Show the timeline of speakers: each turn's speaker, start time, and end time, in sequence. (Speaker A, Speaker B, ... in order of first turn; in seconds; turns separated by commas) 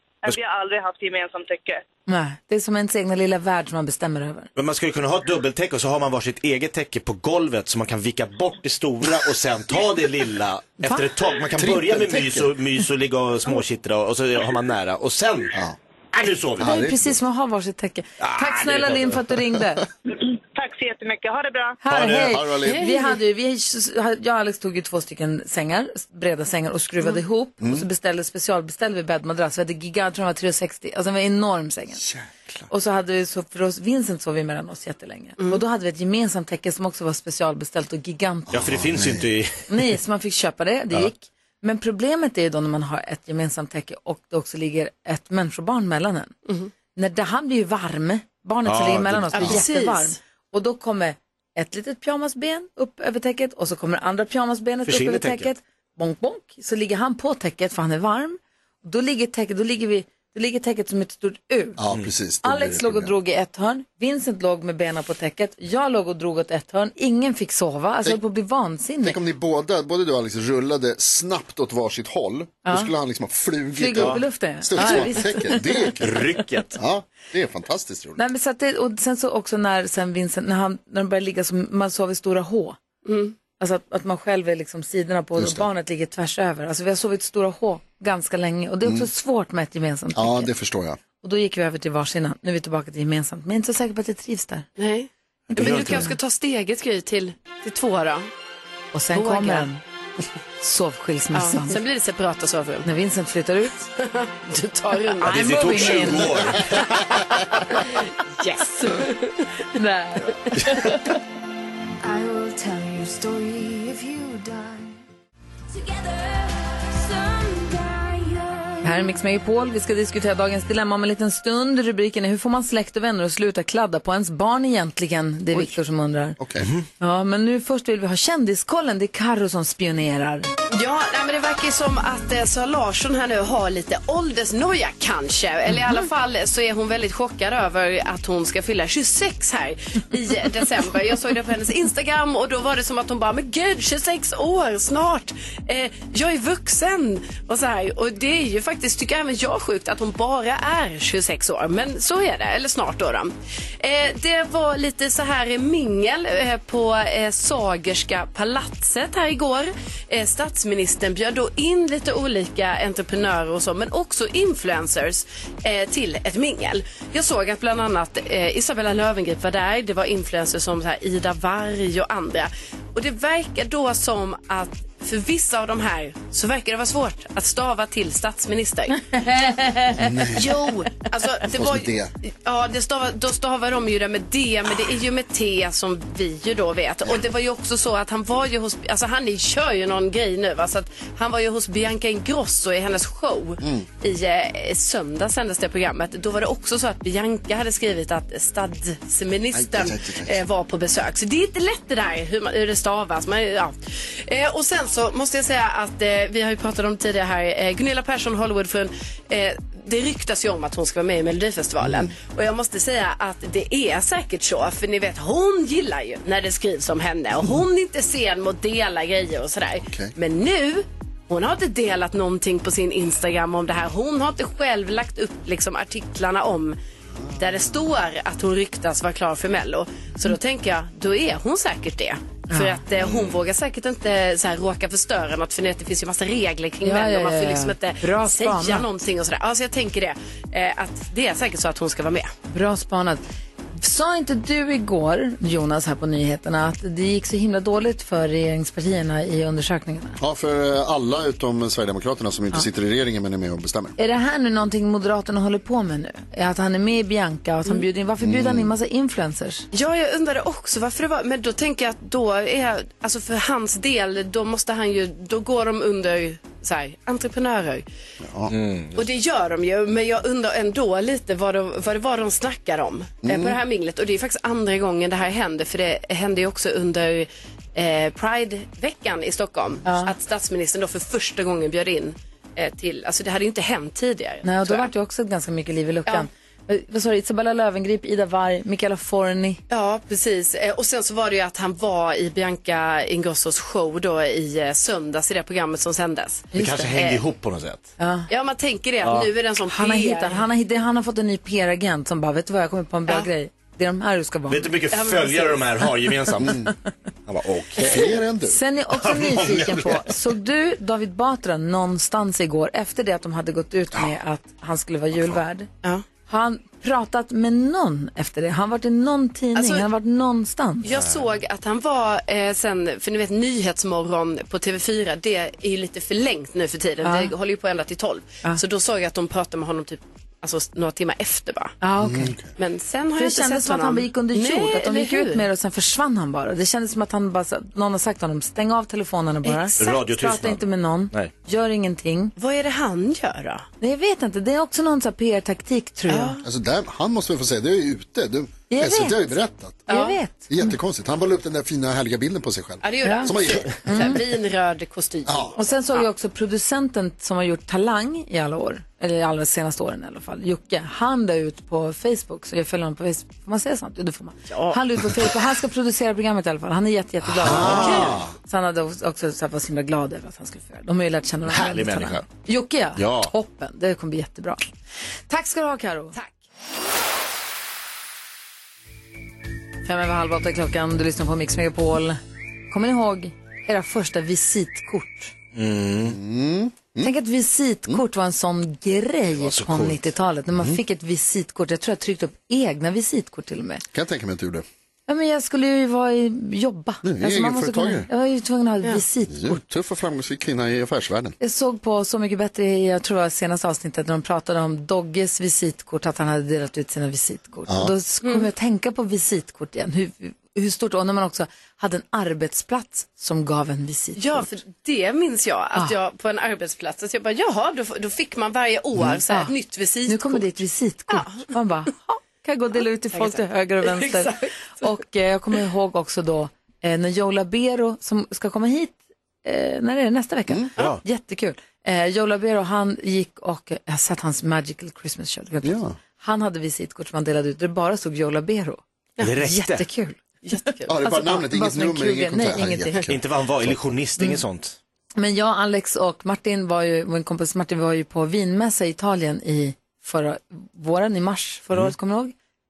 Speaker A: 0.2-1.8, Speaker B: 2.1-4.5, Speaker C: 4.5-15.6, Speaker B: 10.8-11.1, Speaker D: 11.5-12.5, Speaker C: 16.1-16.8, Speaker D: 16.6-17.2, Speaker B: 16.6-19.9, Speaker C: 18.2-19.2, Speaker A: 20.1-21.8, Speaker B: 21.8-32.0, Speaker C: 21.9-22.4, Speaker D: 22.1-22.9, Speaker E: 22.6-23.1, Speaker D: 27.6-27.9, Speaker D: 32.0-32.7, Speaker B: 32.7-38.6, Speaker D: 38.5-39.3, Speaker C: 38.5-39.8, Speaker B: 39.7-46.3, Speaker B: 46.9-61.8, Speaker C: 48.6-49.6, Speaker E: 49.3-50.2, Speaker C: 54.9-55.5, Speaker D: 61.8-63.1, Speaker B: 62.4-69.2, Speaker D: 69.0-76.2, Speaker B: 72.6-72.9, Speaker B: 73.7-76.0, Speaker C: 76.0-76.8, Speaker D: 76.8-78.2, Speaker B: 78.2-82.8, Speaker E: 83.1-83.3, Speaker B: 83.6-90.5, Speaker D: 85.4-85.7, Speaker D: 90.1-91.0, Speaker B: 91.2-94.7, Speaker E: 94.8-98.3, Speaker C: 95.5-96.1, Speaker B: 95.5-96.1, Speaker B: 98.9-99.8, Speaker E: 99.1-99.7, Speaker B: 100.6-101.8, Speaker E: 101.3-102.9, Speaker B: 102.8-103.8, Speaker E: 104.0-105.3, Speaker B: 105.2-106.7, Speaker C: 105.2-107.4, Speaker E: 106.6-109.5, Speaker B: 109.8-111.1, Speaker C: 110.6-110.9, Speaker F: 112.0-115.0, Speaker F: 115.7-119.1, Speaker B: 118.8-126.4, Speaker D: 126.4-126.7, Speaker C: 126.6-126.9, Speaker B: 127.0-130.5, Speaker E: 130.7-179.1, Speaker B: 179.1-180.0, Speaker D: 179.9-180.7, Speaker E: 180.3-226.8, Speaker D: 181.5-182.1, Speaker D: 193.6-193.9, Speaker D: 199.5-200.4, Speaker D: 211.8-212.1, Speaker D: 219.9-220.1, Speaker D: 227.1-227.6, Speaker E: 227.4-242.3, Speaker B: 232.5-232.8, Speaker C: 233.0-233.4, Speaker B: 236.8-238.8, Speaker B: 242.5-243.2, Speaker B: 243.8-250.2, Speaker D: 250.2-253.9, Speaker B: 254.0-259.7, Speaker D: 258.2-258.7, Speaker E: 259.7-267.9, Speaker D: 268.2-268.5, Speaker C: 268.5-269.1, Speaker E: 269.0-284.9, Speaker D: 273.2-273.6, Speaker B: 279.9-280.1, Speaker B: 284.4-289.6, Speaker E: 289.7-297.2, Speaker C: 296.5-297.9, Speaker B: 296.5-296.9, Speaker B: 298.0-298.3, Speaker E: 298.3-300.4, Speaker C: 299.0-299.3, Speaker B: 299.7-304.7, Speaker C: 304.5-306.7, Speaker E: 304.9-305.9, Speaker D: 306.4-306.7, Speaker C: 307.3-308.2, Speaker D: 307.8-308.6, Speaker B: 308.5-315.7, Speaker C: 308.9-310.1, Speaker B: 316.3-320.9, Speaker E: 319.6-319.9, Speaker E: 320.8-331.8, Speaker B: 327.0-327.3, Speaker B: 331.8-332.4, Speaker D: 332.0-332.5, Speaker E: 332.6-335.5, Speaker B: 333.2-342.3, Speaker E: 339.4-340.0, Speaker C: 339.8-341.3, Speaker E: 342.4-343.7, Speaker B: 343.8-346.3, Speaker E: 346.1-346.4, Speaker D: 346.4-349.9, Speaker B: 348.7-349.3, Speaker E: 349.9-350.2, Speaker B: 349.9-350.7, Speaker D: 350.5-354.1, Speaker E: 352.8-356.1, Speaker B: 353.0-353.3, Speaker B: 353.9-354.2, Speaker D: 355.3-355.5, Speaker B: 355.6-374.6, Speaker E: 364.5-364.8, Speaker C: 367.4-368.2, Speaker D: 367.4-368.3, Speaker E: 367.8-368.1, Speaker C: 371.5-372.3, Speaker C: 373.0-373.3, Speaker B: 375.3-376.2, Speaker B: 379.9-382.2, Speaker B: 382.7-385.3, Speaker C: 385.5-386.2, Speaker D: 386.0-387.1, Speaker B: 387.0-393.8, Speaker C: 389.3-390.1, Speaker D: 393.9-394.6, Speaker B: 395.1-399.6, Speaker D: 397.0-398.1, Speaker D: 399.3-401.4, Speaker B: 401.4-414.4, Speaker D: 407.7-407.9, Speaker E: 414.1-420.5, Speaker B: 420.1-438.8, Speaker E: 421.1-421.5, Speaker E: 423.1-424.5, Speaker D: 435.6-436.0, Speaker C: 439.2-439.9, Speaker B: 439.4-440.2, Speaker E: 440.4-440.9, Speaker D: 440.9-443.8, Speaker B: 441.0-443.0, Speaker C: 443.1-444.8, Speaker B: 445.1-452.3